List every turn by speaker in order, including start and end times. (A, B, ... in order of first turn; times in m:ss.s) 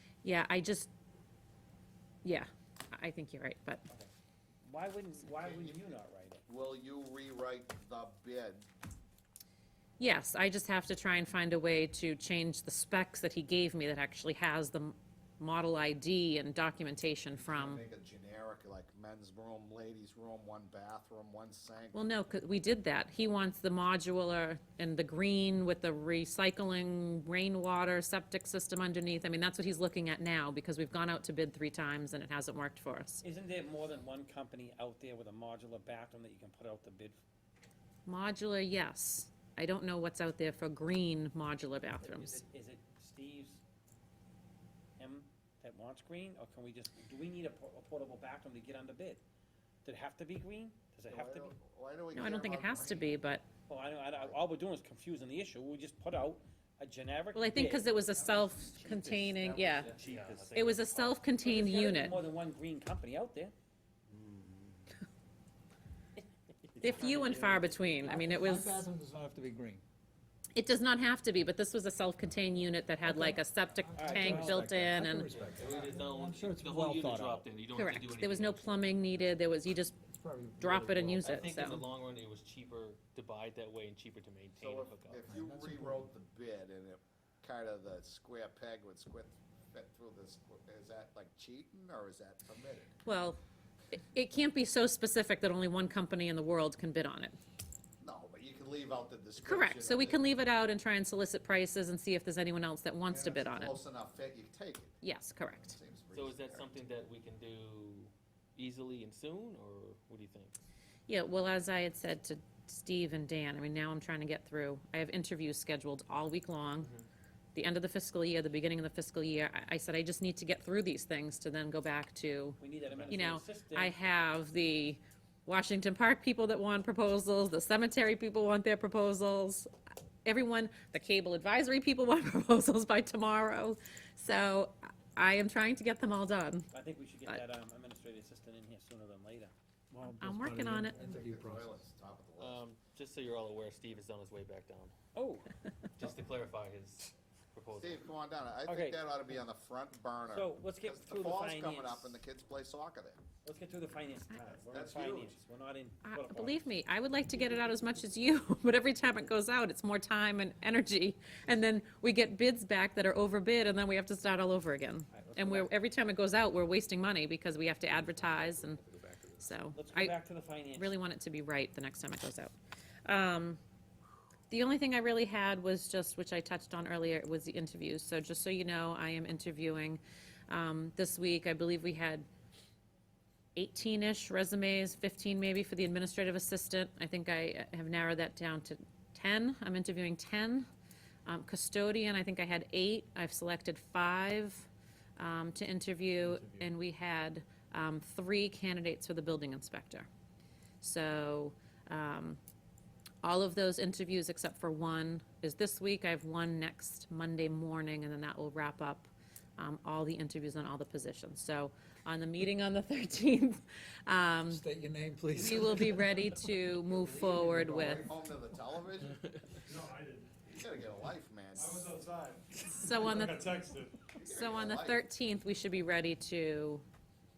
0:00.2-0:00.9 A
0:02.2-0:03.8 A
0:04.6-0:06.4 B
0:05.2-0:08.7 C
0:10.0-0:17.8 A
0:17.4-0:22.1 C
0:21.9-0:33.2 A
0:33.2-0:37.2 B
0:38.1-0:42.4 A
0:42.0-0:43.6 B
0:45.0-0:49.2 B
0:49.8-0:51.6 B
0:51.1-0:53.2 C
0:52.1-0:53.5 A
0:53.7-0:57.9 B
0:54.1-0:54.4 C
0:57.3-0:59.9 A
0:58.4-1:00.5 C
0:59.8-1:01.3 D
1:00.1-1:00.5 B
1:00.5-1:02.2 A
1:01.4-1:03.5 B
1:04.2-1:04.5 D
1:06.8-1:07.7 B
1:06.8-1:08.8 A
1:08.0-1:09.8 E
1:10.6-1:15.3 A
1:13.0-1:17.5 E
1:14.0-1:14.7 B
1:15.3-1:19.0 D
1:17.7-1:20.0 A
1:20.1-1:21.7 E
1:20.6-1:21.8 A
1:21.2-1:25.2 D
1:24.6-1:32.9 C
1:25.3-1:26.1 E
1:33.0-1:33.4 A
1:33.9-1:37.4 A
1:38.0-1:40.2 C
1:39.4-1:43.8 A
1:43.1-1:45.0 C
1:45.0-1:45.8 A
1:45.6-1:46.8 C
1:46.1-1:50.6 D
1:51.1-1:56.9 A
1:56.8-1:57.1 D
1:57.6-2:09.7 A
2:02.6-2:04.0 B
2:02.9-2:03.2 D
2:10.2-2:16.7 A
2:16.7-2:20.3 B
2:20.2-2:21.8 E
2:20.2-2:21.0 A
2:21.0-2:22.6 C
2:22.4-2:24.9 D
2:25.2-2:25.5 B
2:26.0-2:28.0 D
2:27.7-2:33.2 C
2:28.6-2:29.4 B
2:30.3-2:32.2 B
2:33.4-2:36.6 B
2:34.5-2:35.4 C
2:36.0-2:48.8 A
2:45.1-2:45.7 B
2:47.9-2:49.6 D
2:49.4-2:50.2 A
2:49.7-2:51.0 B
2:50.8-2:52.5 A
2:53.1-2:53.6 A
2:54.5-3:02.3 A
3:03.6-3:10.7 A
3:11.3-3:20.1 A
3:16.2-3:16.7 F
3:20.8-3:22.4 A
3:23.2-3:34.7 A
3:34.5-3:36.3 E
3:35.3-3:38.0 A
3:36.9-3:39.2 C
3:37.3-3:38.1 E
3:39.7-3:40.5 F
3:40.5-3:42.0 C
3:41.6-3:44.1 F
3:42.7-3:43.5 A
3:44.1-3:45.0 C
3:44.2-3:46.8 A